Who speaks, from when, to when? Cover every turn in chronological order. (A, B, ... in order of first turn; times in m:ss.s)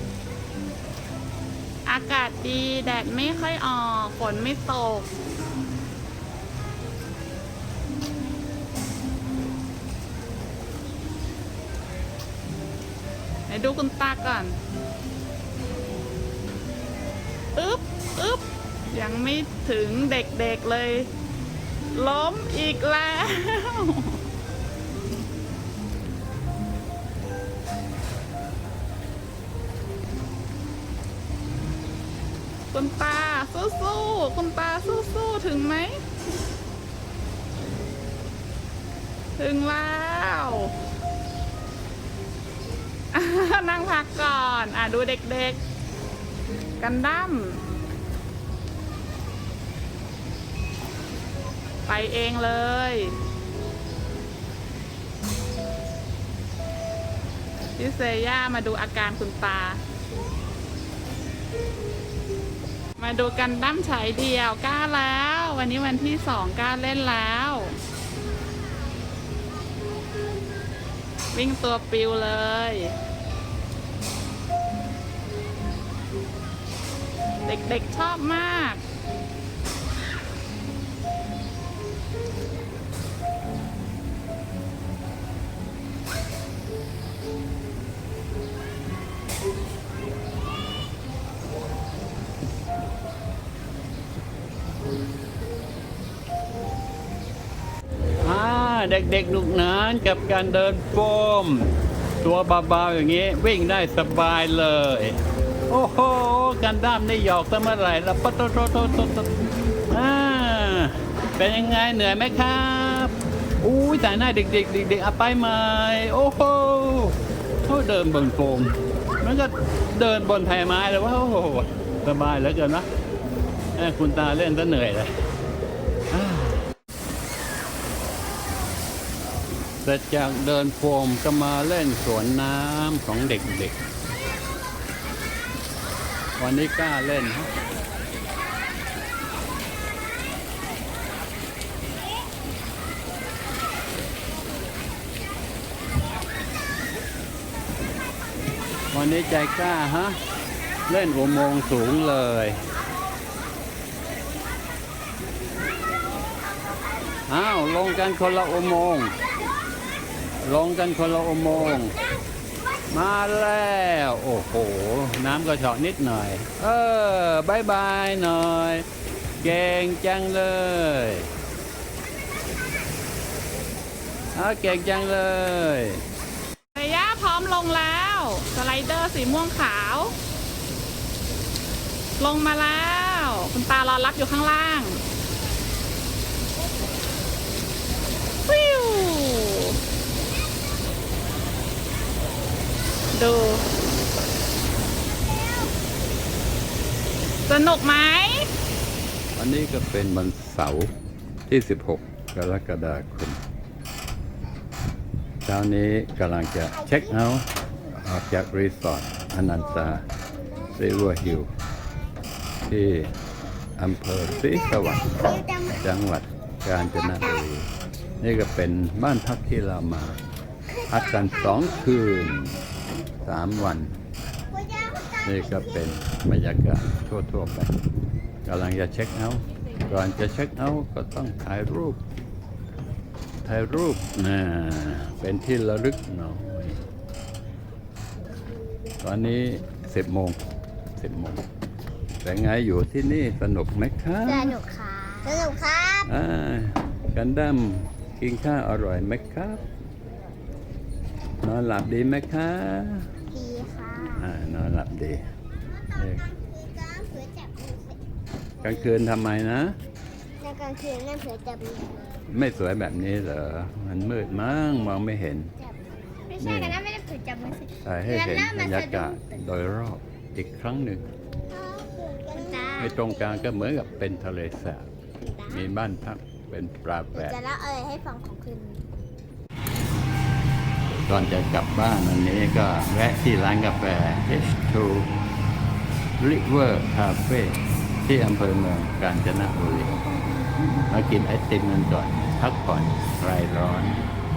0:01.8-0:05.1 A
0:13.5-0:14.6 A
0:17.6-0:21.1 A
0:21.9-0:24.2 A
0:32.7-0:36.0 A
0:39.4-0:40.7 A
0:43.1-0:45.6 A
0:46.8-0:47.6 A
0:51.9-0:53.2 A
0:57.8-0:59.8 A
1:03.0-1:07.8 A
1:08.6-1:09.3 B
1:11.3-1:12.9 A
1:17.4-1:18.8 A
1:38.2-1:41.7 C
1:42.2-1:45.2 C
1:45.7-1:49.3 C
1:49.9-2:02.9 C
2:03.8-2:05.1 C
2:06.1-2:06.6 C
2:09.8-2:13.8 C
2:16.4-2:17.5 C
2:28.9-2:30.2 C
2:30.9-2:32.6 C
2:37.3-2:39.1 C
2:40.4-2:42.0 C
2:42.9-2:48.8 C
2:49.4-2:51.3 C
2:54.3-2:56.0 C
2:56.7-3:00.2 A
3:02.2-3:05.0 A
3:08.5-3:09.8 A
3:10.1-3:12.1 B
3:13.1-3:13.6 A
3:17.5-3:18.5 A
3:19.4-3:20.9 C
3:21.5-3:23.4 C
3:25.4-3:30.0 C
3:26.7-3:27.1 B
3:30.5-3:31.3 B
3:30.7-3:31.5 C
3:32.6-3:33.1 C
3:33.8-3:37.7 C
3:35.1-3:35.8 B
3:38.2-3:40.2 C
3:40.7-3:41.8 B
3:40.9-3:42.6 C
3:43.2-3:44.0 C
3:44.5-3:45.7 B
3:45.2-3:47.7 C
3:48.4-3:52.0 C
3:53.4-3:56.8 C
3:59.0-4:00.4 C
4:01.0-4:01.4 C
4:02.2-4:04.6 C
4:04.2-4:06.1 B
4:06.0-4:09.6 C
4:11.4-4:13.1 C
4:13.3-4:14.2 B
4:14.2-4:15.3 C
4:15.6-4:18.0 B
4:16.0-4:16.2 C
4:18.6-4:18.9 B
4:18.6-4:19.8 C
4:20.4-4:22.1 B
4:22.3-4:25.5 C
4:25.6-4:29.2 B
4:26.4-4:26.8 C
4:27.8-4:31.0 C
4:31.5-4:33.5 B
4:32.8-4:34.9 C
4:35.2-4:35.7 B
4:35.5-4:37.4 C
4:37.1-4:38.8 B
4:40.9-4:45.1 C
4:46.2-4:49.9 C
4:50.8-4:54.0 C